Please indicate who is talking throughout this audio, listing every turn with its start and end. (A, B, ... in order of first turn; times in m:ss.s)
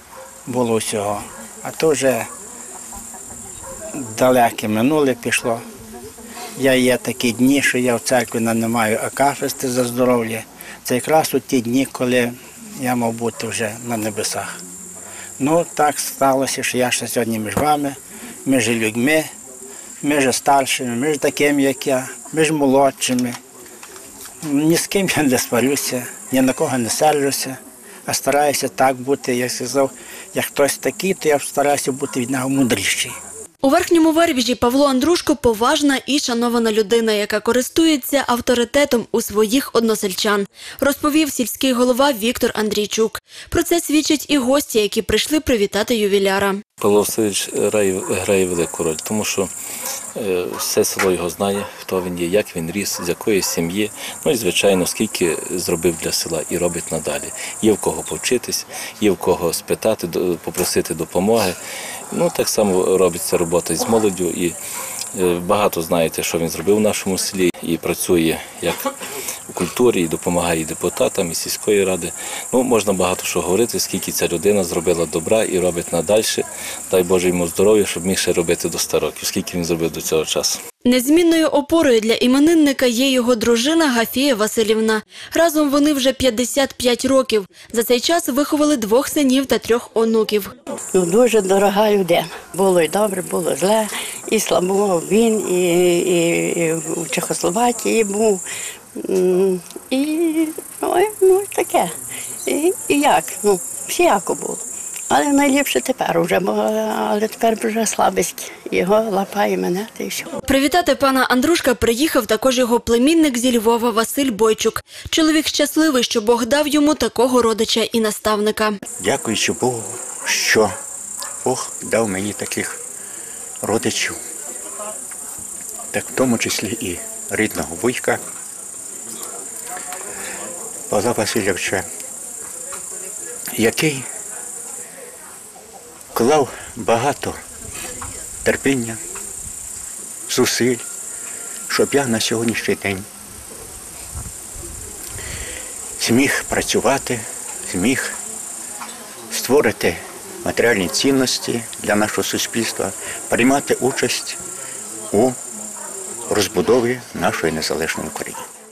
0:00.4-0:02.3 A
0:04.0-0:05.6 A
0:06.6-0:14.6 A
0:15.4-0:19.3 A
0:20.0-0:23.4 A
0:24.4-0:33.2 A
0:33.6-0:46.6 B
0:46.8-0:49.5 C
0:50.2-1:01.6 C
1:02.1-1:04.6 C
1:05.2-1:08.8 C
1:09.5-1:20.6 C
1:20.8-1:30.5 B
1:30.9-1:38.4 D
1:39.0-1:41.9 D
1:42.4-1:50.4 D
1:50.5-1:58.8 B
1:59.0-2:00.7 E
2:01.4-2:02.8 E
2:03.6-2:04.2 E
2:05.9-2:08.2 E
2:10.9-2:11.8 E
2:13.5-2:14.1 E
2:16.2-2:17.4 E
2:18.4-2:19.0 E
2:20.3-2:20.8 E
2:21.7-2:23.1 E
2:26.0-2:28.2 E
2:29.3-2:34.4 E
2:35.1-2:35.4 E
2:36.3-2:38.4 E